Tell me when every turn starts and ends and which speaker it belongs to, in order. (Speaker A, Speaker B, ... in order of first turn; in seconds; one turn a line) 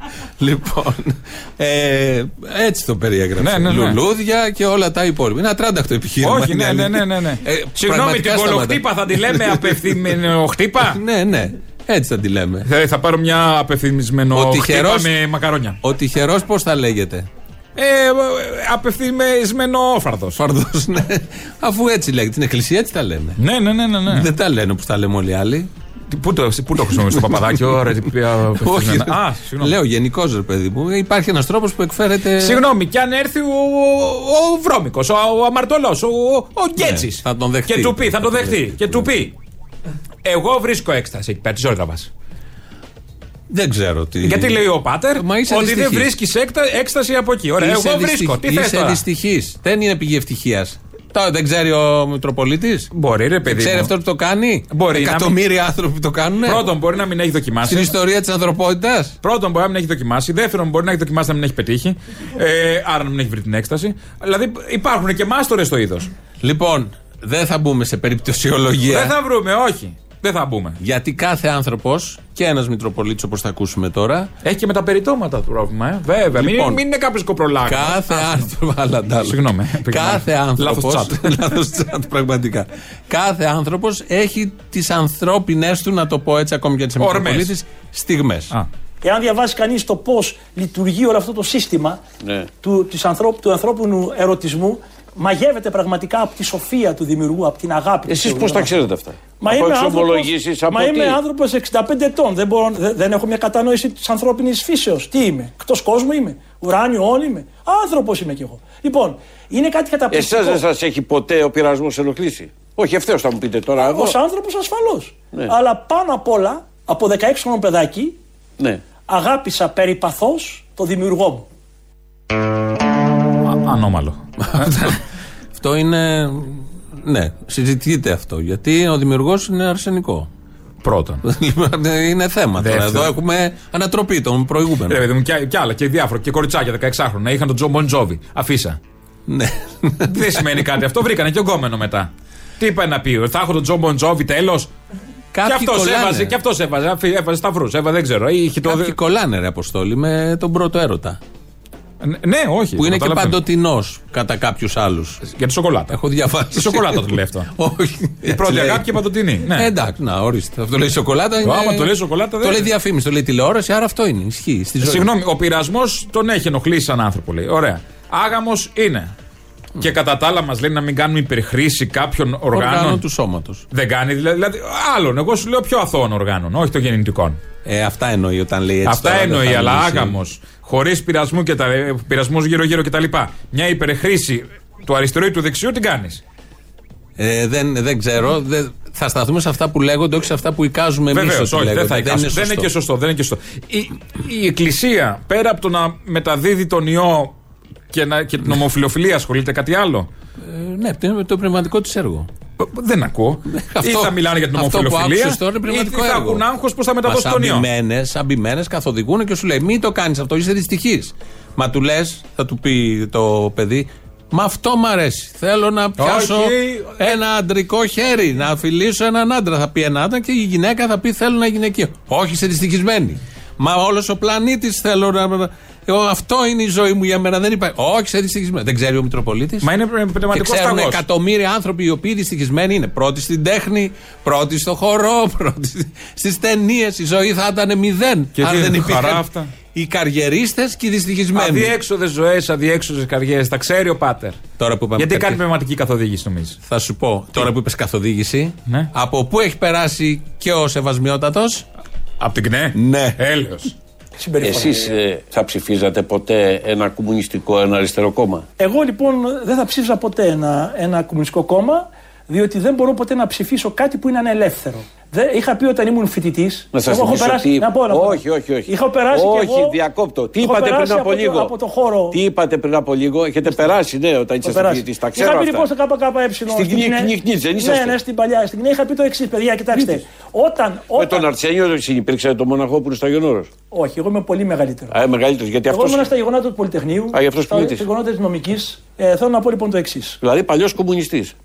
Speaker A: 0.4-10.0
Speaker B: 3.4-4.0
Speaker B: 6.2-11.0
Speaker A: 10.9-12.7
Speaker B: 12.7-15.8
Speaker A: 14.3-15.1
Speaker A: 15.8-17.3
Speaker B: 17.8-20.4
Speaker A: 20.4-23.4
Speaker B: 23.4-24.3
Speaker A: 24.1-25.7
Speaker B: 26.1-29.7
Speaker A: 26.8-27.8
Speaker A: 28.6-32.6
Speaker B: 32.4-39.3
Speaker A: 36.8-39.0
Speaker B: 40.2-42.1
Speaker A: 43.5-44.6
Speaker B: 44.2-49.0
Speaker A: 45.2-46.1
Speaker A: 47.6-52.9
Speaker B: 52.9-53.9
Speaker A: 53.5-56.6
Speaker B: 54.7-55.4
Speaker B: 56.4-57.9
Speaker A: 57.6-59.1
Speaker B: 59.2-66.1
Speaker A: 66.4-69.1
Speaker B: 68.9-70.8
Speaker A: 70.8-74.3
Speaker B: 74.4-78.5
Speaker A: 76.3-76.8
Speaker A: 77.7-88.5
Speaker B: 79.2-81.4
Speaker B: 87.0-87.5
Speaker C: 89.0-92.0
Speaker D: 92.2-92.5
Speaker C: 92.6-98.7
Speaker D: 98.1-101.2
Speaker C: 99.4-110.6
Speaker D: 110.1-114.2
Speaker C: 113.8-118.2
Speaker C: 119.1-121.5
Speaker B: 123.5-125.0
Speaker A: 124.4-125.0
Speaker A: 125.5-130.3
Speaker B: 130.8-131.2
Speaker A: 131.2-135.0
Speaker B: 132.6-133.1
Speaker B: 134.9-138.8
Speaker A: 139.3-140.4
Speaker B: 140.1-144.7
Speaker A: 145.3-146.3
Speaker B: 145.4-148.9
Speaker A: 148.6-151.2
Speaker B: 152.0-153.4
Speaker A: 152.8-155.2
Speaker B: 155.2-156.0
Speaker A: 155.9-165.1
Speaker B: 156.5-157.5
Speaker B: 158.2-159.7
Speaker B: 161.4-162.7
Speaker B: 164.8-169.1
Speaker B: 169.8-173.0
Speaker A: 172.5-173.6
Speaker B: 173.7-177.4
Speaker A: 177.6-180.2
Speaker B: 178.8-186.2
Speaker A: 187.2-192.7
Speaker B: 191.1-197.3
Speaker B: 197.9-200.1
Speaker A: 200.4-202.3
Speaker B: 202.6-207.7
Speaker A: 203.5-206.4
Speaker A: 207.1-229.7
Speaker B: 216.0-217.2
Speaker B: 229.6-231.0
Speaker A: 230.3-241.7
Speaker B: 238.4-239.5
Speaker B: 241.3-244.4
Speaker A: 244.6-245.4
Speaker B: 245.0-246.6
Speaker A: 246.7-251.6
Speaker B: 252.2-253.7
Speaker A: 252.7-253.2
Speaker C: 254.2-254.9
Speaker D: 254.4-258.4
Speaker C: 258.6-269.7
Speaker D: 266.7-271.5
Speaker C: 270.4-272.2
Speaker D: 272.1-275.7
Speaker C: 274.4-281.2
Speaker D: 276.5-278.0
Speaker D: 279.7-280.0
Speaker D: 280.9-283.5
Speaker C: 283.7-284.9
Speaker D: 284.9-286.1
Speaker C: 285.7-290.2
Speaker D: 287.1-287.9
Speaker D: 290.2-291.3